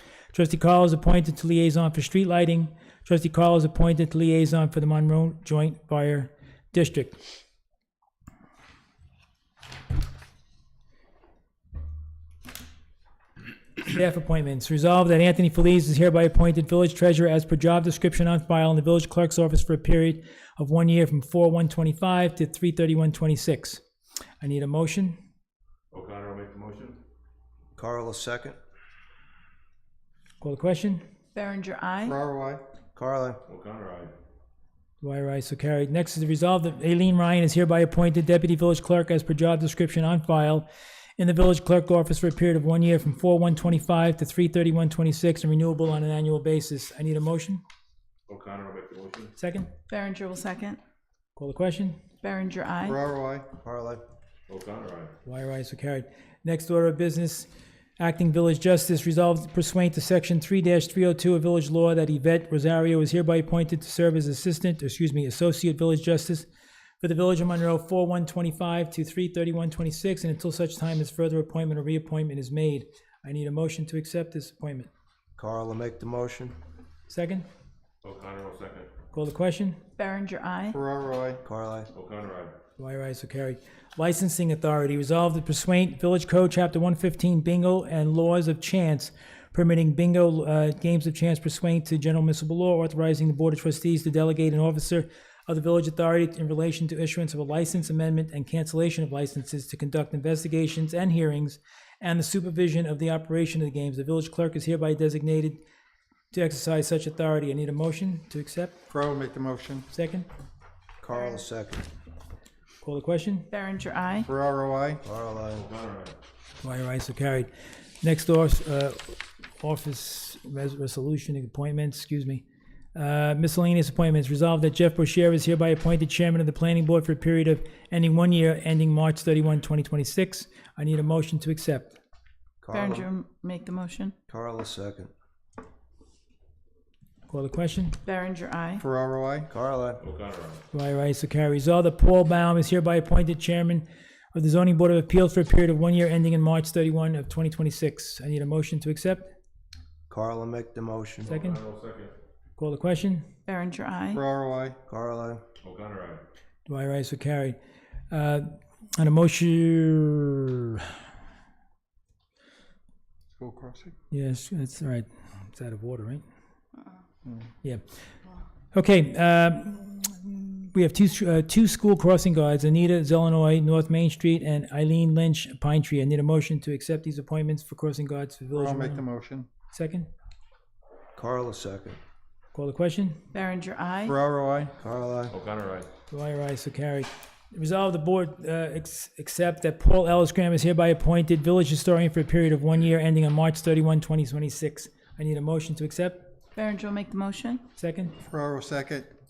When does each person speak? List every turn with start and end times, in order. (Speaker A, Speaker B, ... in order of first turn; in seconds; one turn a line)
Speaker A: 0.3-7.2
Speaker A: 13.8-23.8
Speaker A: 24.4-25.2
Speaker B: 25.9-27.0
Speaker C: 27.8-28.6
Speaker A: 30.4-31.0
Speaker D: 31.3-32.2
Speaker E: 32.0-32.6
Speaker C: 33.0-33.4
Speaker B: 33.5-34.1
Speaker A: 35.0-40.7
Speaker A: 41.2-47.6
Speaker B: 48.3-49.3
Speaker A: 49.4-49.7
Speaker D: 49.9-50.8
Speaker A: 51.4-52.0
Speaker D: 52.2-53.0
Speaker E: 52.8-53.5
Speaker C: 53.6-54.0
Speaker B: 54.5-55.1
Speaker A: 55.2-57.5
Speaker A: 58.0-66.5
Speaker A: 67.0-74.9
Speaker C: 75.4-76.6
Speaker A: 77.1-77.5
Speaker B: 78.0-78.9
Speaker A: 79.1-79.8
Speaker D: 80.0-80.8
Speaker E: 80.7-81.4
Speaker C: 81.4-81.9
Speaker B: 81.9-82.6
Speaker A: 82.8-105.6
Speaker A: 106.3-108.8
Speaker E: 108.9-109.9
Speaker A: 109.9-110.3
Speaker C: 111.0-111.9
Speaker A: 112.8-113.5
Speaker D: 113.5-114.3
Speaker E: 114.2-115.0
Speaker C: 115.0-115.7
Speaker B: 115.5-116.2
Speaker A: 116.6-117.5
Speaker A: 118.0-122.4
Speaker A: 123.0-132.0
Speaker C: 132.6-133.1
Speaker D: 132.7-134.2
Speaker C: 134.3-135.1
Speaker A: 137.3-138.0
Speaker D: 138.0-138.8
Speaker E: 138.8-139.5
Speaker C: 139.5-140.0
Speaker B: 140.0-140.6
Speaker A: 140.7-149.3
Speaker C: 150.1-151.3
Speaker B: 151.2-152.1
Speaker A: 151.3-151.6
Speaker A: 152.6-153.3
Speaker D: 153.5-154.2
Speaker E: 154.1-154.8
Speaker C: 154.9-155.4
Speaker B: 155.6-156.2
Speaker A: 156.7-157.6
Speaker A: 158.1-161.0
Speaker E: 163.4-163.9
Speaker A: 164.1-166.2
Speaker A: 168.7-179.0
Speaker E: 178.5-179.5
Speaker A: 179.7-180.1
Speaker C: 181.2-182.0
Speaker A: 182.5-183.2
Speaker D: 183.3-184.2
Speaker E: 184.1-184.7
Speaker C: 184.8-185.3
Speaker B: 185.3-185.9
Speaker A: 186.1-196.3
Speaker D: 196.6-197.7
Speaker A: 197.8-198.2
Speaker E: 198.2-199.1